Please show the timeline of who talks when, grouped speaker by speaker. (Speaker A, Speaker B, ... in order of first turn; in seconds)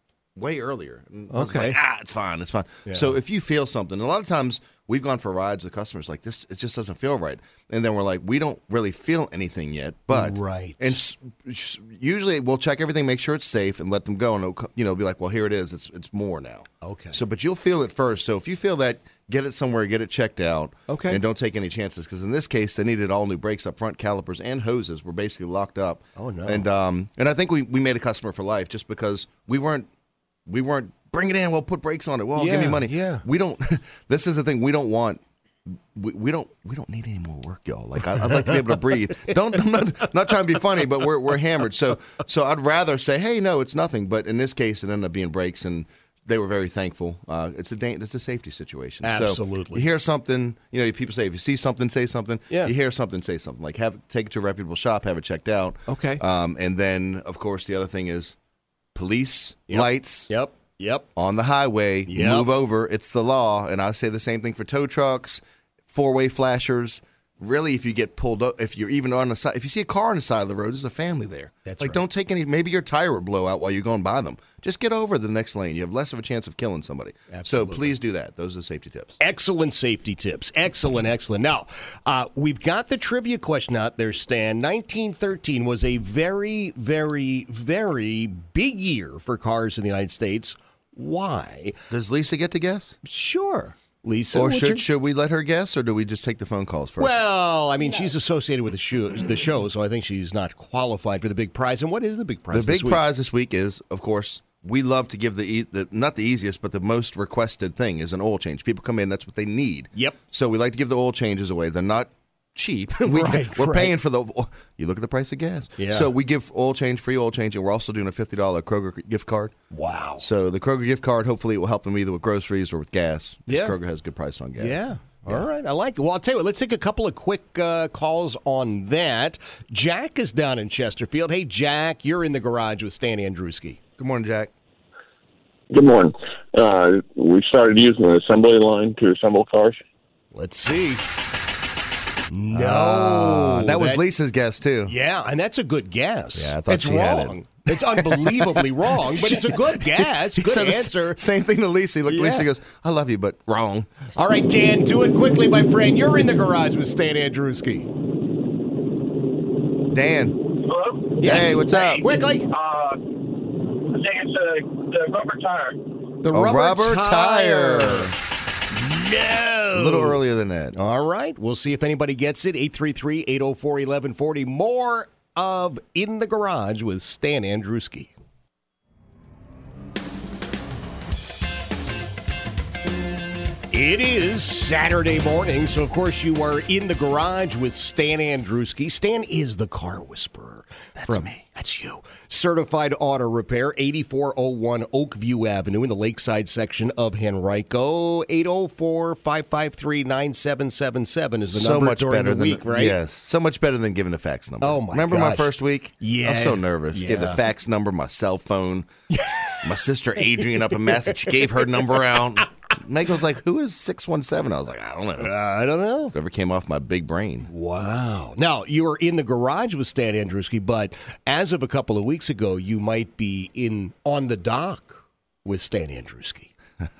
Speaker A: 0.4-29.9, 30.5-58.4, 59.0-60.3, 61.2-79.2, 91.9-93.0, 94.3-97.2, 102.5-119.5, 120.2-125.5, 134.0-134.5, 142.5-144.9, 146.3-153.9, 159.9-160.4, 161.2-162.1, 166.3-168.2, 169.7-170.8, 191.0-191.4, 201.5-208.9, 209.6-215.4, 216.1-217.5
Speaker B: 1.3-1.8, 2.9-3.1, 10.1-11.0, 16.8-17.2, 20.9-21.2, 26.2-26.7, 32.4-33.2, 38.3-38.6, 49.0-49.8, 55.9-56.2, 59.7-61.1, 62.1-62.5, 71.7-72.0, 77.3-78.0, 79.2-91.8, 93.0-94.9, 97.0-103.0, 113.1-114.0, 115.8-116.1, 119.7-120.3, 123.5-123.8, 124.6-133.8, 140.3-141.0, 142.3-144.0, 144.8-151.2, 152.1-152.5, 154.2-157.9, 161.2-162.5, 166.2-168.1, 168.7-170.2, 170.8-178.1, 183.7-203.0, 204.6-207.4, 209.1-209.7, 210.4-212.1, 215.2-216.1, 217.5-226.5
Speaker C: 135.7-139.8
Speaker D: 160.6-161.4, 162.5-166.0